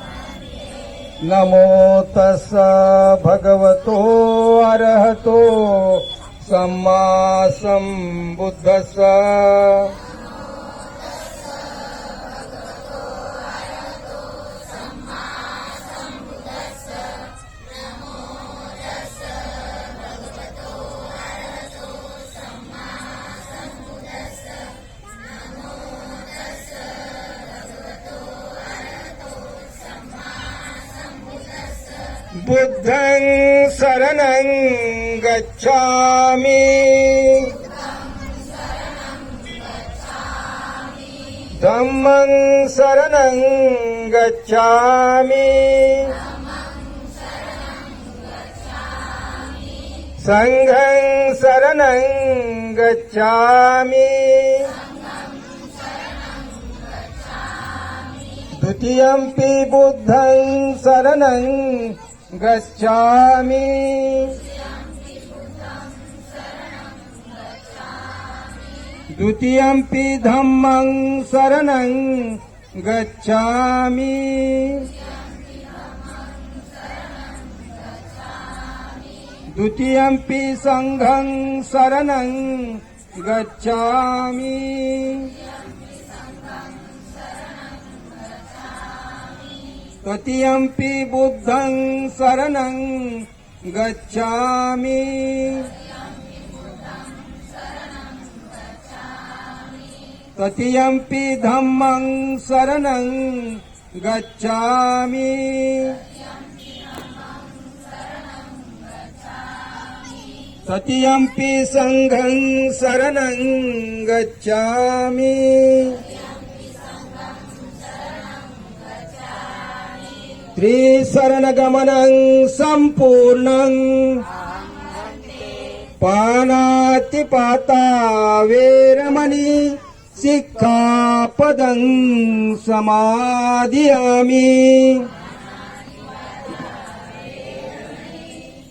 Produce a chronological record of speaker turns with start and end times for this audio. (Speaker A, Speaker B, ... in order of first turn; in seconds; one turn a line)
Speaker A: 1.2-9.9
Speaker A: 32.4-37.6
Speaker A: 41.5-46.2
Speaker A: 50.2-54.7
Speaker A: 58.5-64.4
Speaker A: 69.1-74.9
Speaker A: 79.5-85.3
Speaker A: 90.0-95.7
Speaker A: 100.3-106.0
Speaker A: 110.7-116.0
Speaker A: 120.5-124.2
Speaker A: 126.0-135.1